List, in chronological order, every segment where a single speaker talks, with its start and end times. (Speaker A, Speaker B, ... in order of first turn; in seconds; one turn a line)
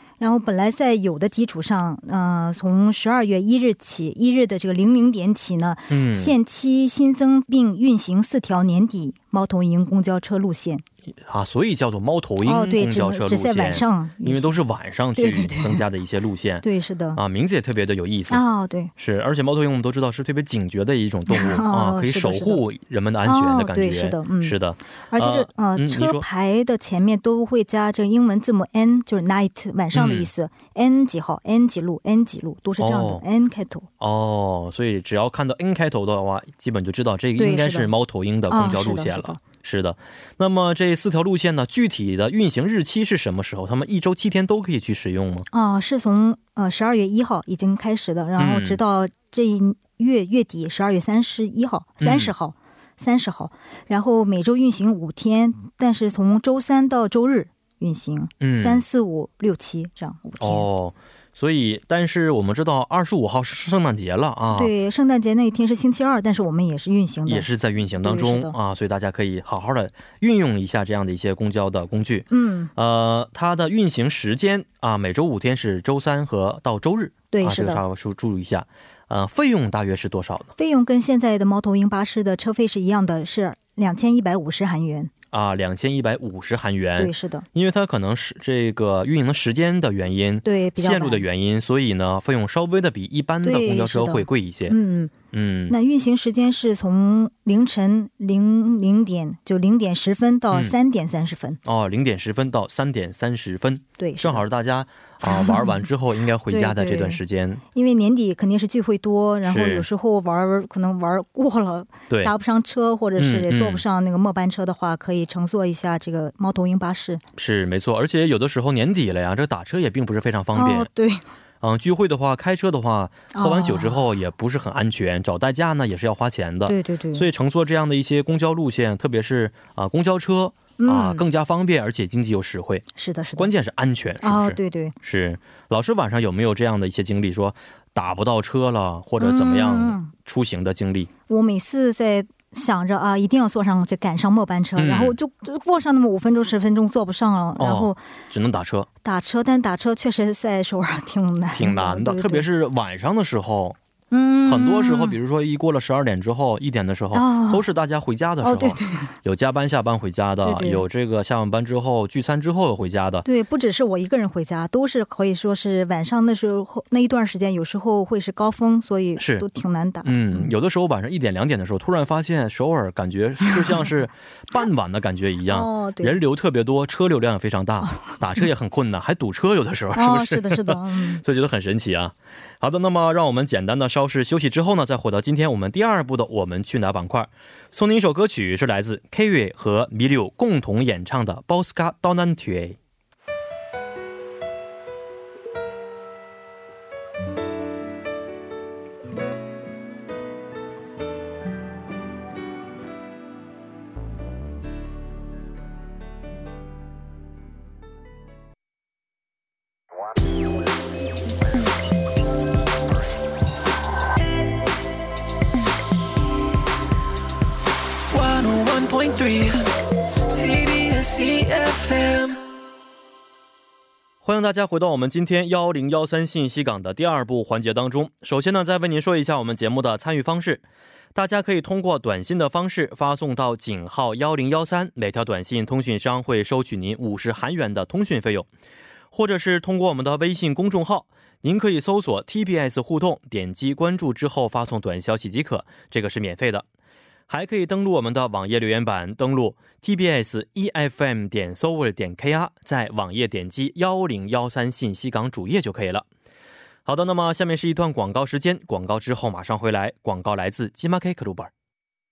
Speaker A: 0.2-10.8
Speaker B: 5.9-6.3
Speaker B: 11.2-18.4
Speaker A: 12.4-14.6
Speaker A: 15.2-15.8
Speaker A: 16.6-17.2
Speaker A: 18.3-18.9
Speaker B: 19.0-26.2
Speaker A: 21.3-22.6
Speaker A: 23.2-24.6
Speaker A: 25.1-33.9
Speaker B: 29.9-30.3
Speaker B: 32.8-33.2
Speaker B: 34.0-45.5
Speaker A: 37.4-37.9
Speaker A: 38.5-39.4
Speaker A: 45.5-60.7
Speaker B: 48.4-48.8
Speaker B: 52.0-52.3
Speaker B: 58.4-58.8
Speaker B: 60.4-64.7
Speaker A: 64.5-67.5
Speaker B: 67.2-80.5
Speaker A: 68.0-68.5
Speaker A: 72.3-72.7
Speaker A: 77.3-77.8
Speaker A: 80.6-85.1
Speaker B: 85.3-94.8
Speaker A: 87.0-87.5
Speaker A: 90.4-91.2
Speaker A: 93.4-95.1
Speaker B: 95.3-95.8
Speaker A: 95.7-101.6
Speaker B: 101.6-107.6
Speaker A: 104.0-104.4
Speaker A: 105.2-105.8
Speaker A: 106.5-107.2
Speaker A: 107.7-117.2
Speaker B: 109.4-109.9
Speaker B: 113.2-113.8
Speaker B: 117.3-120.9
Speaker A: 120.5-121.2
Speaker B: 121.6-141.1
Speaker A: 123.3-124.0
Speaker A: 126.7-127.3
Speaker A: 130.8-131.2
Speaker A: 132.9-133.5
Speaker A: 134.2-134.9
Speaker A: 139.2-140.1
Speaker A: 141.3-148.0
Speaker B: 144.8-145.2
Speaker B: 147.6-148.9
Speaker A: 149.0-152.4
Speaker B: 151.5-153.8
Speaker A: 154.1-155.2
Speaker B: 154.4-163.2
Speaker A: 157.1-157.7
Speaker A: 158.4-159.1
Speaker A: 160.4-160.8
Speaker A: 163.2-170.5
Speaker B: 169.2-169.4
Speaker B: 170.0-192.8
Speaker A: 175.5-176.2
Speaker A: 177.8-178.2
Speaker A: 179.9-181.2
Speaker C: 218.1-219.7
Speaker C: 220.3-222.4
Speaker B: 224.2-238.5
Speaker B: 239.1-246.7
Speaker B: 247.3-256.1
Speaker B: 256.9-261.5